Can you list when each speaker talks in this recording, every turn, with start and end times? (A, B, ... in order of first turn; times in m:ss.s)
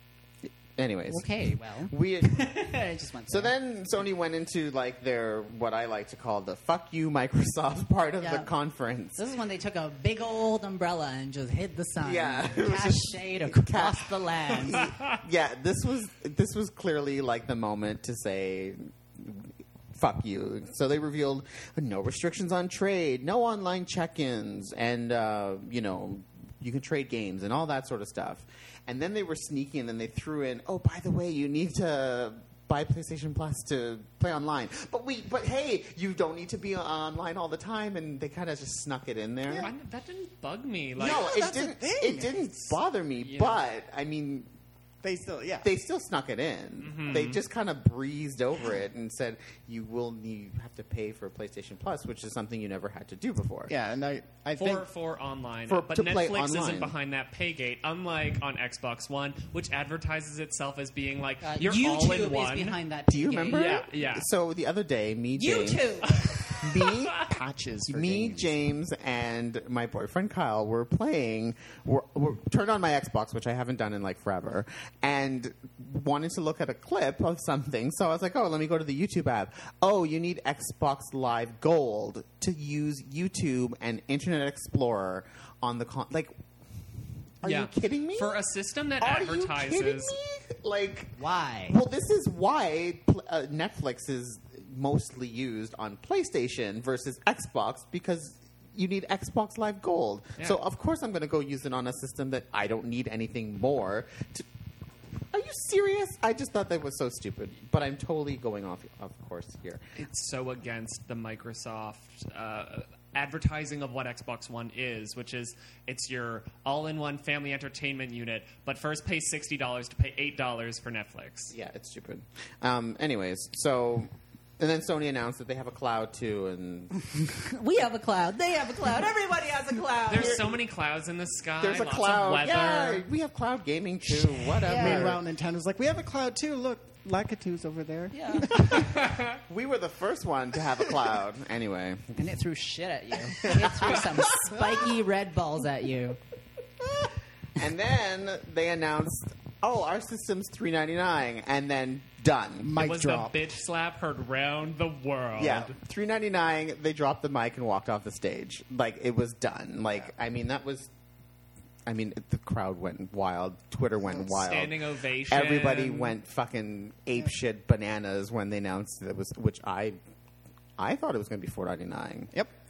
0:00.4-0:02.7 A
0:01.1-0:03.5 B
0:03.3-0:09.2 A
0:08.2-0:08.5 B
0:09.2-0:14.9 B
0:12.0-0:39.7 A
0:39.5-0:39.7 C
0:39.6-0:41.3 D
0:41.0-0:44.5 A
0:41.0-0:42.8 C
0:43.2-0:43.6 D
0:45.0-0:45.7 C
0:45.6-0:53.7 A
0:46.8-0:47.4 D
0:53.7-0:54.8 C
0:54.6-1:02.8 D
0:55.7-0:56.9 A
1:01.4-1:03.8 B
1:03.1-1:07.2 A
1:03.5-1:04.3 D
1:05.4-1:06.4 B
1:06.2-1:06.6 D
1:07.1-1:08.6 C
1:07.9-1:26.3 A
1:27.4-1:28.4 A
1:27.4-1:30.2 D
1:29.0-1:31.2 A
1:31.2-1:31.8 B
1:31.7-1:44.5 A
1:45.3-1:49.8 A
1:50.0-2:01.5 D
2:01.5-2:07.1 A
2:07.3-2:10.5 B
2:10.1-2:13.0 D
2:10.1-2:10.5 A
2:11.6-2:15.2 A
2:14.6-2:15.1 B
2:14.7-2:19.1 C
2:18.1-2:18.5 B
2:18.7-2:22.2 A
2:18.8-2:19.3 D
2:22.2-2:26.2 B
2:23.3-2:24.5 A
2:27.5-2:32.7 A
2:32.6-2:33.4 C
2:32.8-2:35.7 D
2:35.4-2:40.9 A
2:41.8-2:50.0 A
2:44.2-2:46.1 D
2:50.8-2:52.3 A